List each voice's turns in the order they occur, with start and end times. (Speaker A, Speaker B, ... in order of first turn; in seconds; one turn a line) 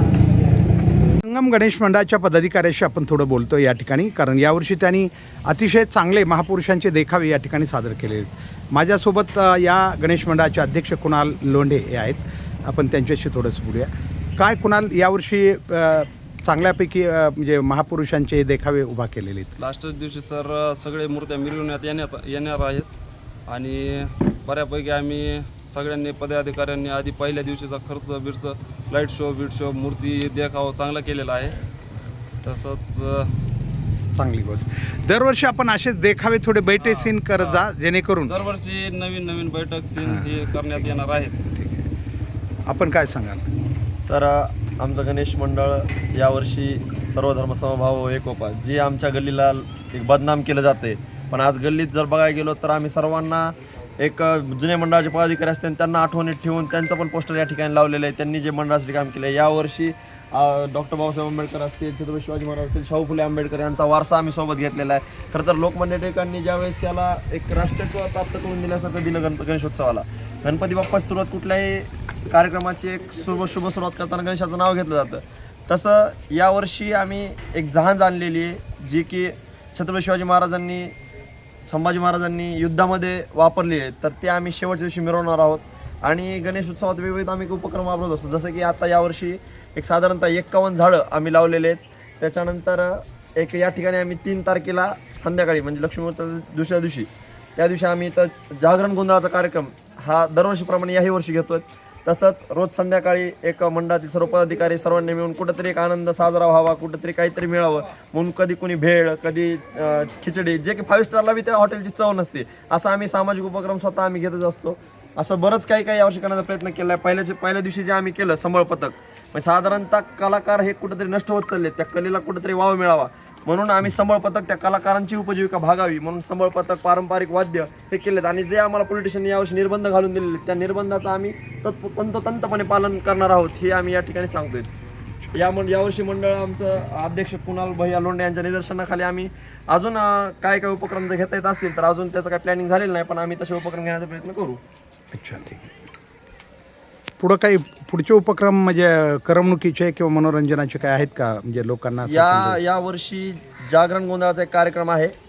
Speaker A: 1.2-19.5
Speaker B: 19.6-22.9
Speaker B: 23.5-31.6
Speaker B: 32.4-33.3
Speaker A: 34.2-38.4
Speaker B: 36.8-37.6
Speaker B: 38.3-41.4
Speaker A: 41.5-41.9
Speaker A: 42.7-43.5
Speaker C: 44.0-80.9
Speaker C: 81.6-134.7
Speaker C: 135.3-144.6
Speaker A: 145.1-145.7
Speaker A: 147.2-152.6
Speaker C: 152.0-155.1